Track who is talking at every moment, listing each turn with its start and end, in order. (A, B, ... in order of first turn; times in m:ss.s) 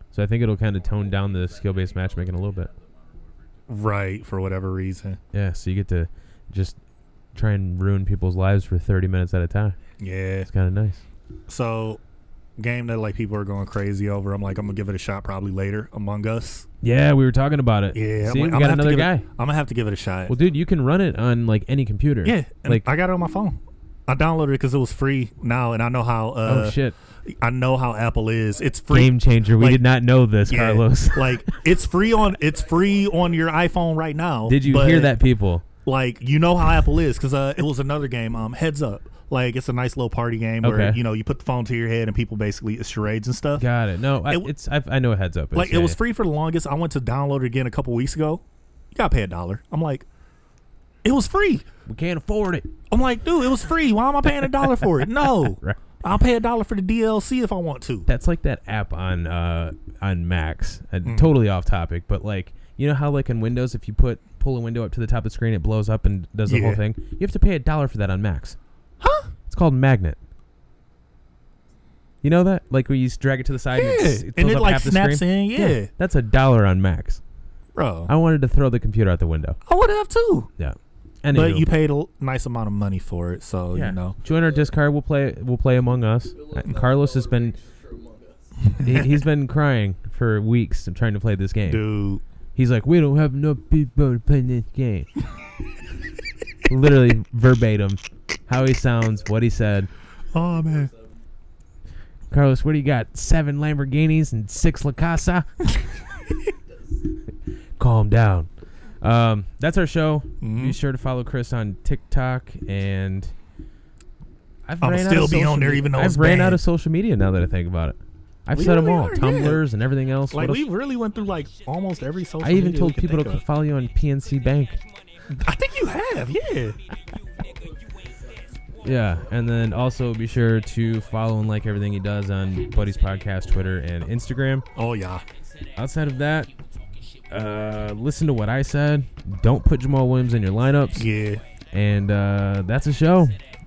0:00.1-0:02.7 A
0:00.4-0:03.9 B
0:03.7-0:05.2 C
0:05.3-0:06.8 A
0:07.3-0:09.8 A
0:10.0-0:10.5 C
0:10.5-0:11.0 A
0:11.5-0:12.0 C
0:12.6-0:16.7 C
0:16.8-0:19.2 A
0:17.9-0:20.3 C
0:20.3-0:22.9 A
0:20.3-0:20.6 B
0:22.2-0:29.8 C
0:26.4-0:27.0 A
0:28.9-0:31.5 A
0:30.4-0:35.2 C
0:31.5-0:33.8 B
0:34.4-0:35.6 A
0:35.8-0:43.6 C
0:40.6-0:41.0 A
0:43.6-0:46.0 A
0:45.5-0:50.0 C
0:51.0-0:51.6 C
0:51.8-0:52.7 A
0:52.9-0:58.1 C
0:55.4-0:55.8 A
0:58.1-1:08.6 A
1:01.0-1:01.3 C
1:06.4-1:06.8 C
1:09.0-1:09.3 C
1:09.5-1:10.2 A
1:12.2-1:17.2 A
1:13.7-1:15.9 C
1:17.7-1:18.1 C
1:18.1-1:19.6 A
1:19.6-1:20.5 C
1:20.6-1:21.7 A
1:21.3-1:24.2 C
1:23.7-1:27.6 A
1:24.2-1:24.7 B
1:26.3-1:28.7 B
1:28.8-1:29.2 C
1:28.8-1:31.8 A
1:31.7-1:32.2 C
1:32.5-1:35.1 A
1:36.7-1:39.9 A
1:40.3-1:41.2 B
1:40.3-1:40.9 C
1:42.3-1:45.7 A
1:46.4-1:46.8 B
1:47.8-1:53.3 A
1:50.4-1:50.8 C
1:54.6-2:00.7 A
1:54.8-1:56.6 C
1:58.5-1:59.6 C
2:00.3-2:03.4 C
2:02.4-2:04.8 A
2:05.3-2:06.8 C
2:08.0-2:09.8 B
2:08.8-2:14.6 A
2:14.7-2:15.2 C
2:15.8-2:16.5 A
2:17.3-2:21.1 A
2:20.9-2:21.4 C
2:21.7-2:23.4 A